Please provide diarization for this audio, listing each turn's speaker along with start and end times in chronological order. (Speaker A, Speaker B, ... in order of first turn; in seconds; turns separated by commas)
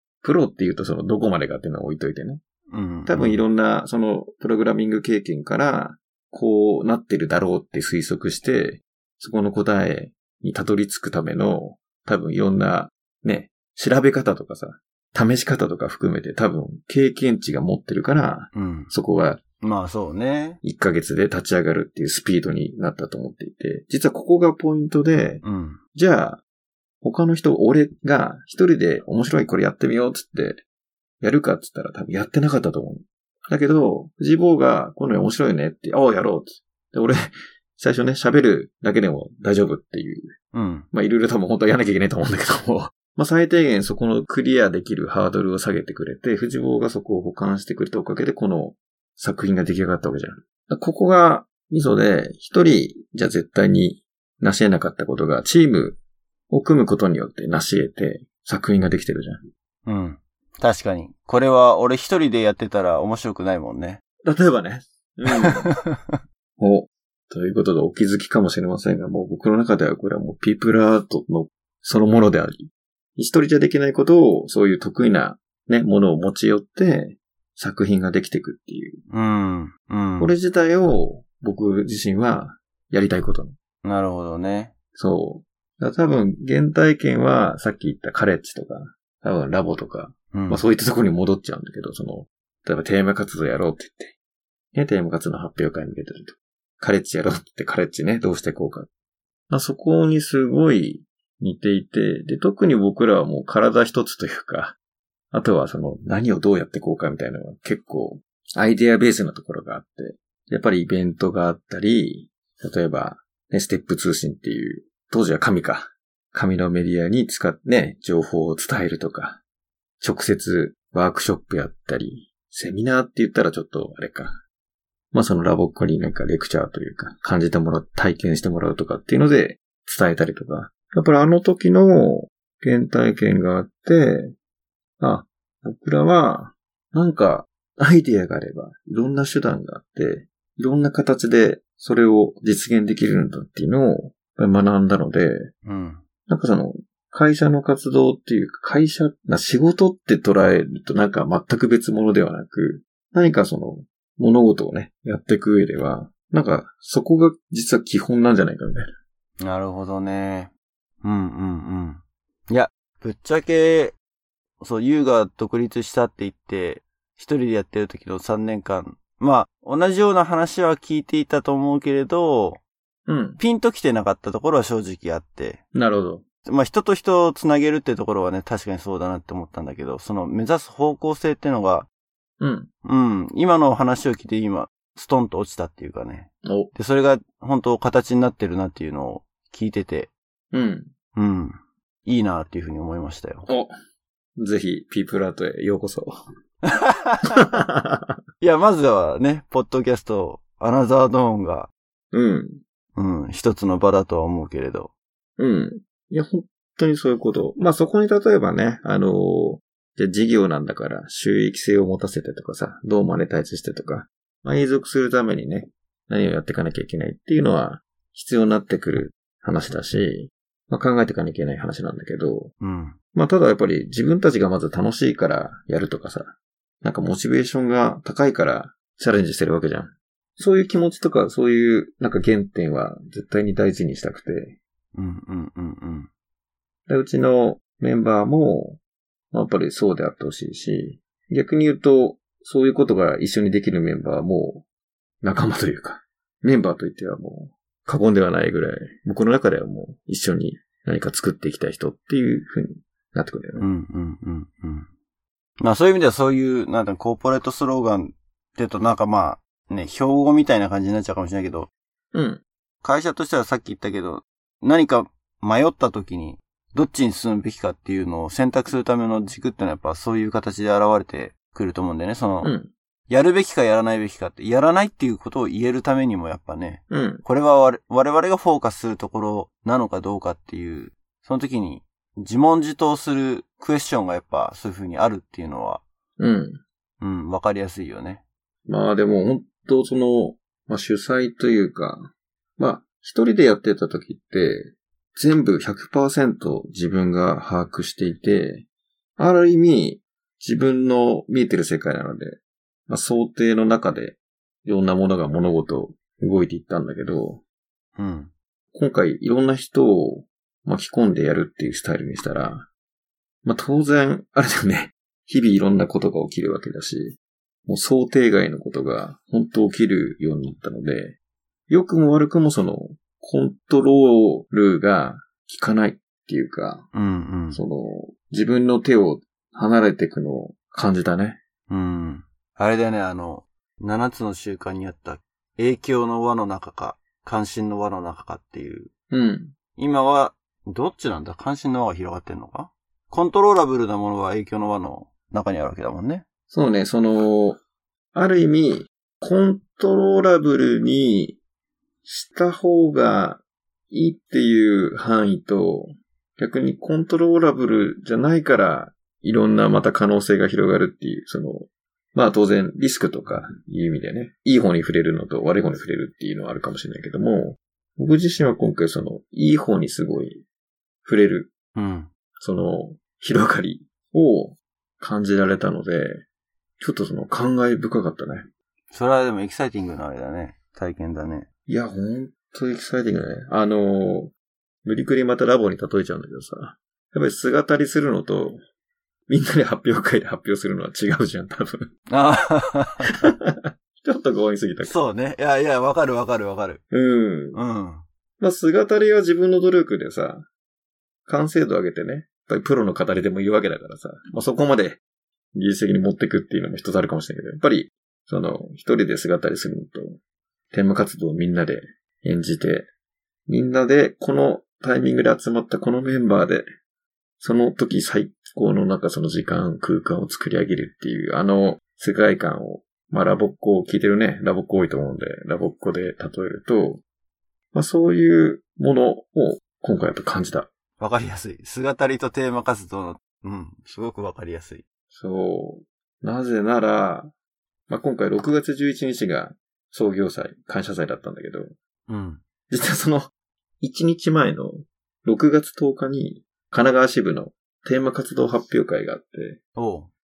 Speaker A: 0.2-2.4, Speaker B: 2.7-3.4, Speaker A: 3.1-19.4, Speaker B: 18.5-18.9, Speaker B: 19.6-20.6, Speaker A: 20.6-25.4, Speaker B: 25.4-25.8, Speaker A: 25.9-26.4, Speaker A: 27.0-30.6, Speaker A: 31.2-40.3, Speaker B: 40.5-40.9, Speaker A: 40.9-56.0, Speaker A: 56.5-59.4, Speaker B: 59.9-64.0, Speaker A: 64.2-65.7, Speaker B: 65.3-66.2, Speaker A: 66.6-79.0, Speaker B: 79.1-80.3, Speaker A: 80.2-83.5, Speaker B: 83.8-84.7, Speaker A: 85.0-94.2, Speaker B: 90.3-90.6, Speaker A: 94.7-98.9, Speaker A: 99.5-104.8, Speaker A: 105.3-119.4, Speaker A: 120.0-124.4, Speaker A: 125.1-134.3, Speaker A: 135.0-145.5, Speaker B: 145.7-146.0, Speaker A: 146.3-158.9, Speaker B: 159.4-160.5, Speaker B: 161.0-164.0, Speaker B: 164.6-172.6, Speaker A: 173.1-173.4, Speaker B: 173.4-175.6, Speaker A: 175.7-176.2, Speaker B: 176.4-181.9, Speaker A: 182.4-182.7, Speaker B: 182.8-190.1, Speaker A: 186.4-186.7, Speaker A: 190.5-190.9, Speaker B: 191.2-193.5, Speaker A: 193.5-193.7, Speaker A: 194.4-196.1, Speaker B: 196.7-197.4, Speaker A: 197.3-198.2, Speaker B: 198.4-201.7, Speaker A: 202.1-202.6, Speaker B: 203.0-204.9, Speaker A: 205.4-222.5, Speaker B: 222.6-223.0, Speaker A: 223.1-234.6, Speaker B: 234.9-236.1, Speaker A: 236.9-238.8, Speaker A: 239.3-244.7, Speaker A: 245.2-253.7, Speaker B: 253.6-254.9, Speaker B: 255.6-261.7, Speaker A: 262.1-262.4, Speaker B: 262.8-272.5, Speaker A: 272.4-272.7, Speaker B: 273.1-285.8, Speaker A: 276.9-277.2, Speaker A: 286.2-286.6, Speaker B: 287.0-288.2, Speaker A: 288.7-298.7, Speaker A: 299.2-307.4, Speaker B: 308.0-308.3, Speaker A: 308.7-312.7, Speaker A: 313.4-321.2, Speaker A: 321.7-326.9, Speaker B: 326.9-327.6, Speaker A: 327.5-331.4, Speaker B: 331.7-338.9, Speaker A: 339.1-339.5, Speaker B: 339.8-346.2, Speaker A: 346.5-347.6, Speaker A: 348.1-351.4, Speaker A: 352.1-370.4, Speaker A: 371.1-371.5, Speaker B: 371.8-372.1, Speaker A: 372.4-376.2, Speaker A: 376.8-378.5, Speaker B: 378.9-381.5, Speaker A: 381.7-384.3, Speaker A: 384.9-388.6, Speaker A: 389.3-391.9, Speaker B: 392.1-393.1, Speaker A: 393.2-395.0, Speaker B: 394.8-396.8, Speaker A: 396.9-397.6, Speaker B: 397.5-398.0, Speaker A: 398.4-400.5, Speaker A: 401.3-405.0, Speaker A: 405.6-410.2, Speaker A: 410.7-412.9, Speaker A: 413.5-416.6, Speaker A: 417.4-427.0, Speaker A: 427.7-430.7, Speaker B: 431.0-434.8, Speaker A: 435.1-437.3, Speaker A: 437.9-441.7, Speaker B: 442.1-442.4, Speaker A: 442.7-449.6, Speaker B: 449.8-450.1